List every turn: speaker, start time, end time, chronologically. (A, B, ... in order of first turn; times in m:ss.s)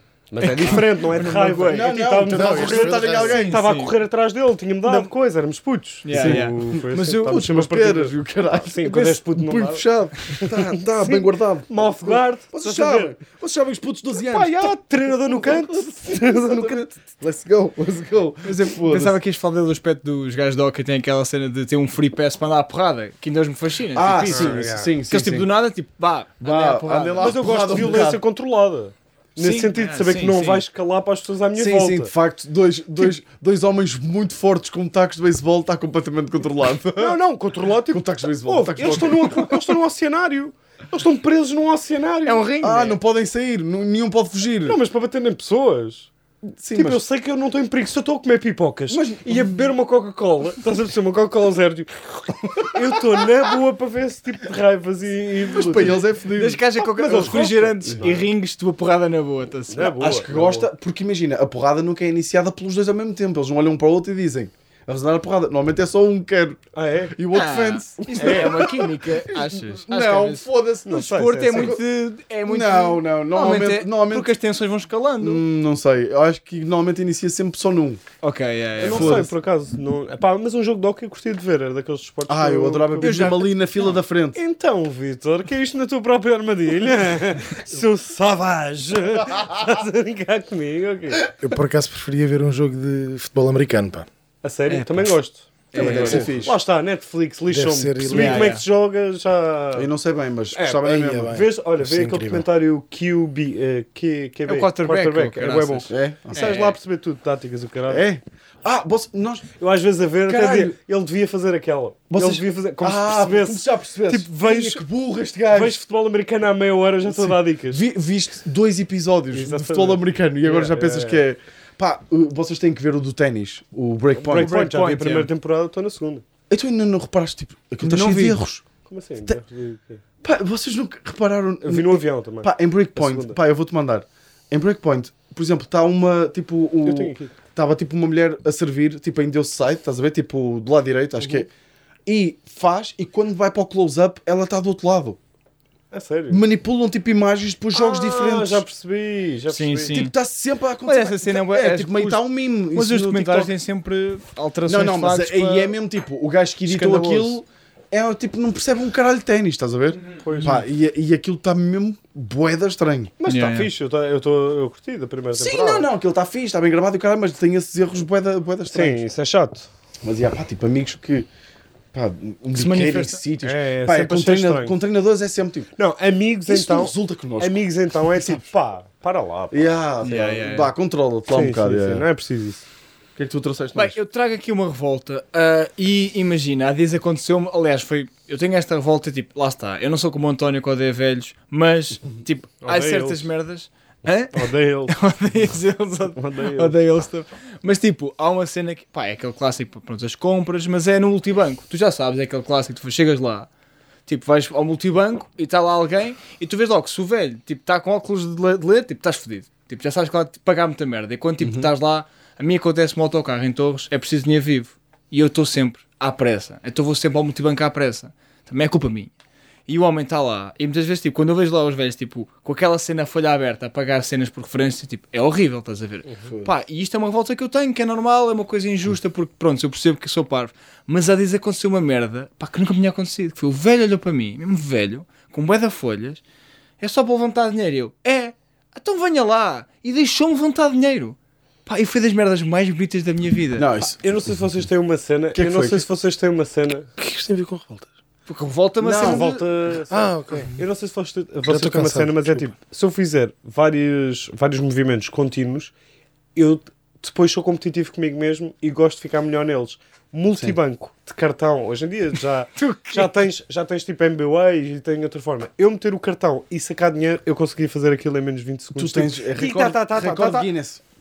0:00.3-0:09.8 A
0:00.4-0:03.9 B
0:01.7-0:03.6 C
0:04.8-0:05.1 B
0:06.0-0:07.4 B
0:06.1-0:19.2 C
0:08.9-0:09.1 B
0:10.4-0:13.1 A
0:14.3-0:16.9 A
0:18.4-0:28.0 B
0:23.9-0:25.5 C
0:24.3-0:24.9 A
0:26.4-0:28.2 C
0:27.1-0:32.1 A
0:29.4-0:30.6 B
0:31.6-0:37.2 C
0:37.0-0:42.5 A
0:37.9-0:39.7 C
0:42.2-0:43.0 B
0:42.6-0:44.8 C
0:44.6-0:46.1 A
0:46.5-0:47.0 C
0:46.7-0:56.0 A
0:48.9-0:49.6 C
0:55.5-0:58.0 C
0:56.3-1:00.0 B
0:56.8-0:58.3 A
0:59.7-1:00.7 A
1:00.0-1:06.6 C
1:06.7-1:07.1 A
1:07.1-1:11.8 C
1:07.3-1:15.4 B
1:08.1-1:08.5 A
1:10.8-1:11.8 A
1:12.4-1:14.3 C
1:15.2-1:18.0 C
1:18.2-1:19.3 B
1:18.8-1:23.5 A
1:18.8-1:19.3 C
1:22.3-1:24.4 C
1:23.0-1:23.3 B
1:24.3-1:31.3 A
1:31.4-1:34.1 D
1:34.4-1:39.9 A
1:34.7-1:35.1 B
1:35.7-1:36.3 B
1:35.7-1:36.5 C
1:37.5-1:38.5 D
1:38.1-1:38.6 B
1:39.7-1:41.4 C
1:40.5-1:48.0 A
1:40.9-1:42.4 D
1:44.4-1:46.8 B
1:45.9-1:46.5 C
1:47.9-1:49.5 C
1:49.6-1:54.8 A
1:50.2-1:50.8 C
1:52.1-1:55.8 C
1:55.5-1:57.8 A
1:57.0-2:04.6 C
1:59.3-2:01.2 A
2:04.2-2:06.2 A
2:04.3-2:05.3 B
2:06.5-2:08.6 C
2:07.8-2:08.4 B
2:08.8-2:10.0 A
2:10.2-2:21.5 C
2:11.6-2:13.4 A
2:16.8-2:17.3 A
2:22.0-2:25.2 C
2:25.9-2:26.4 A
2:26.3-2:28.6 C
2:27.7-2:30.0 A
2:29.5-2:30.1 B
2:29.9-2:33.5 C
2:30.8-2:35.7 B
2:34.6-2:43.1 C
2:36.7-2:37.4 B
2:40.2-2:40.6 A
2:40.3-2:40.6 B
2:43.2-2:45.9 A
2:43.2-2:43.7 B
2:45.3-2:49.0 C
2:48.7-2:49.7 A
2:50.0-2:51.3 C
2:51.9-2:55.7 C
2:52.5-2:53.2 B
2:53.4-2:54.8 A
2:55.8-2:59.7 A
2:56.5-2:58.4 C
2:59.5-3:02.0 C
3:00.0-3:00.7 B
3:01.3-3:02.6 A
3:03.2-3:04.0 C
3:03.7-3:23.5 B
3:12.6-3:13.2 A
3:14.3-3:14.9 A
3:16.2-3:16.7 A
3:24.1-3:39.1 B
3:31.4-3:31.7 C
3:39.7-3:56.2 B
3:56.8-4:03.7 B
4:03.6-4:04.0 C
4:04.0-4:06.9 A
4:05.3-4:05.8 C
4:07.0-4:07.9 D
4:08.3-4:09.4 B
4:08.8-4:09.3 C
4:08.8-4:15.7 A
4:09.9-4:10.5 D
4:11.5-4:12.5 D
4:16.3-4:30.5 A
4:22.6-4:23.1 B
4:28.7-4:30.8 C